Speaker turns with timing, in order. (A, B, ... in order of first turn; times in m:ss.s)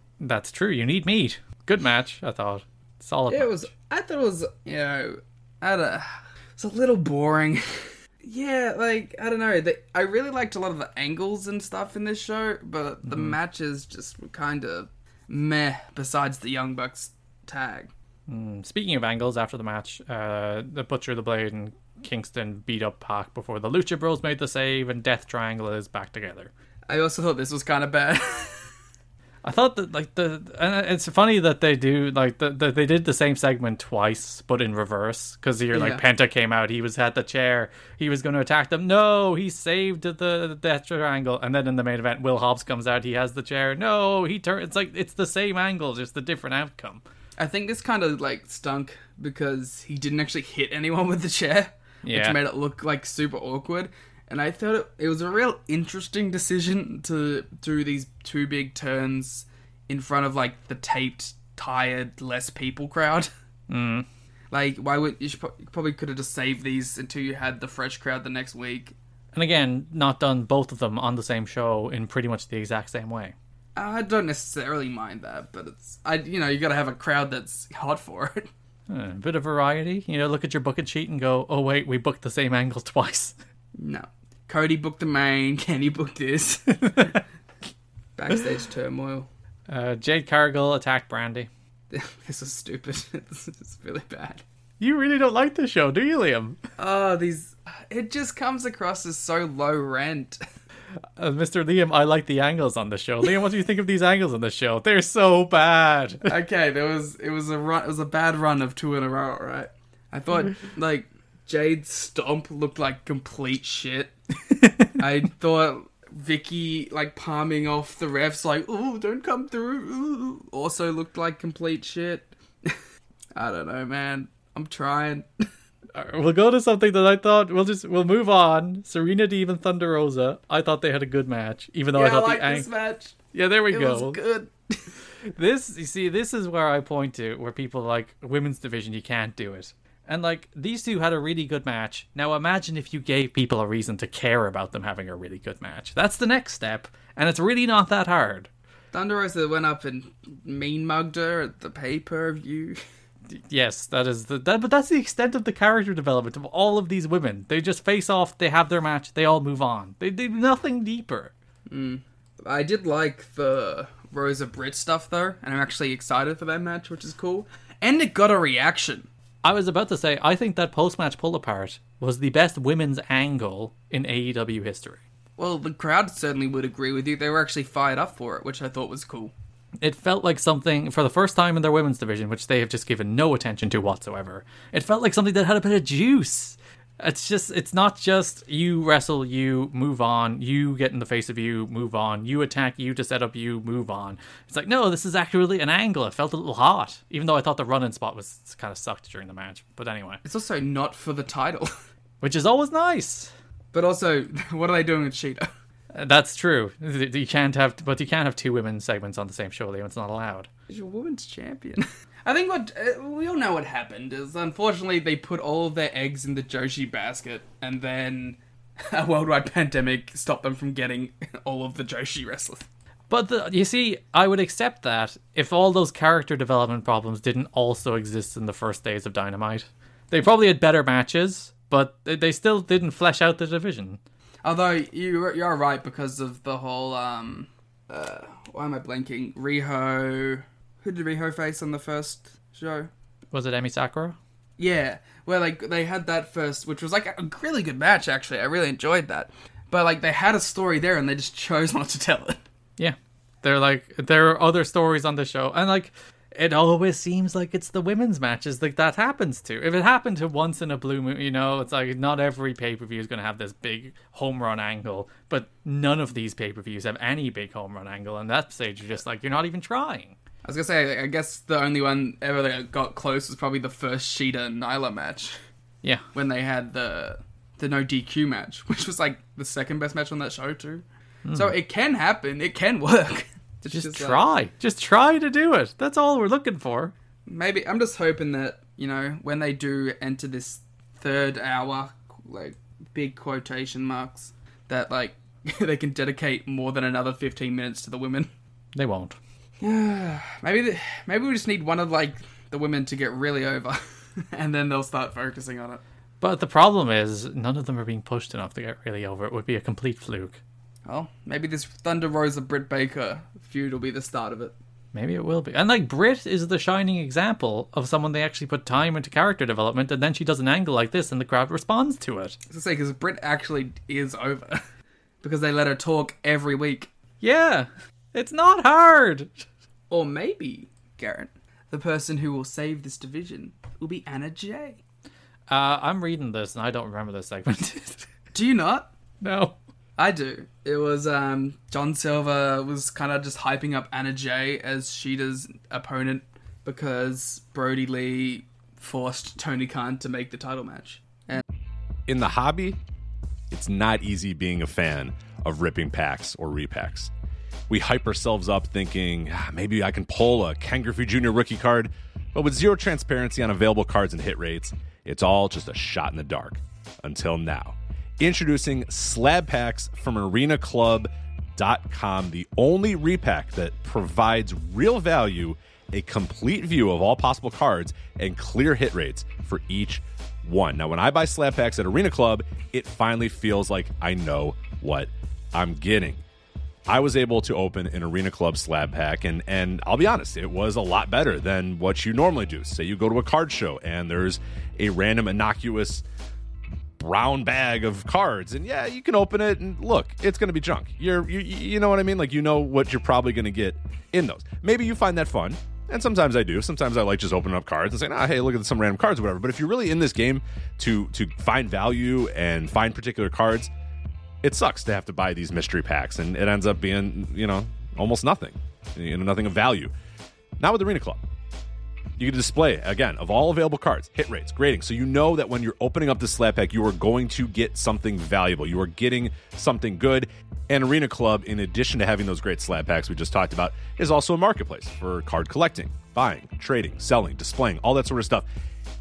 0:00.2-0:03.7 A
0:03.3-0:17.9 B
0:13.1-0:13.4 A
0:18.3-0:26.5 A
0:26.9-0:28.7 B
0:29.4-0:47.0 A
0:35.7-0:36.0 B
0:47.4-1:03.3 B
0:52.0-0:52.4 A
1:03.7-1:04.1 A
1:04.5-1:08.9 B
1:09.3-1:13.4 A
1:13.8-1:18.5 B
1:18.9-1:23.4 A
1:23.8-1:27.2 B
1:28.2-1:29.3 B
1:29.7-1:31.5 A
1:31.9-1:34.4 B
1:34.8-1:36.6 A
1:36.8-1:40.4 B
1:41.2-1:46.3 A
1:46.2-1:54.1 B
1:55.0-2:02.8 B
2:03.4-2:05.3 B
2:05.9-2:12.7 A
2:11.9-2:13.2 B
2:13.3-2:14.2 A
2:13.7-2:14.8 B
2:15.3-2:28.5 A
2:28.9-2:32.8 B
2:33.3-2:41.3 A
2:41.7-2:49.1 B
2:49.4-2:55.0 A
2:55.4-2:59.3 B
2:59.8-3:20.2 A
3:20.2-3:21.7 B
3:22.2-3:23.3 A
3:23.7-3:25.5 B
3:25.9-3:30.5 A
3:30.7-3:42.7 B
3:43.1-3:54.0 A
3:54.4-4:02.9 B
4:03.3-4:04.2 A
4:04.6-4:12.4 B
4:12.8-4:30.2 A
4:30.4-4:35.4 B
4:36.1-4:44.3 B
4:41.3-4:41.6 A
4:43.7-4:46.9 A
4:47.3-4:58.3 B
4:58.7-4:59.2 A
4:59.6-5:03.8 B
5:04.3-5:05.8 B
5:06.2-5:10.4 A
5:10.9-5:14.6 B
5:14.9-5:22.4 A
5:22.5-5:24.6 B
5:25.2-5:26.9 B
5:27.2-5:29.5 A
5:29.9-5:34.8 B
5:35.5-5:38.1 A
5:38.3-5:38.9 B
5:39.2-5:39.6 A
5:40.0-5:51.4 B
5:52.1-5:52.8 C
5:53.5-5:57.1 C
5:57.7-6:26.2 C
6:26.9-6:36.0 C
6:37.0-6:53.7 C
6:54.4-6:59.9 C
7:00.6-7:01.2 C
7:02.2-7:18.4 C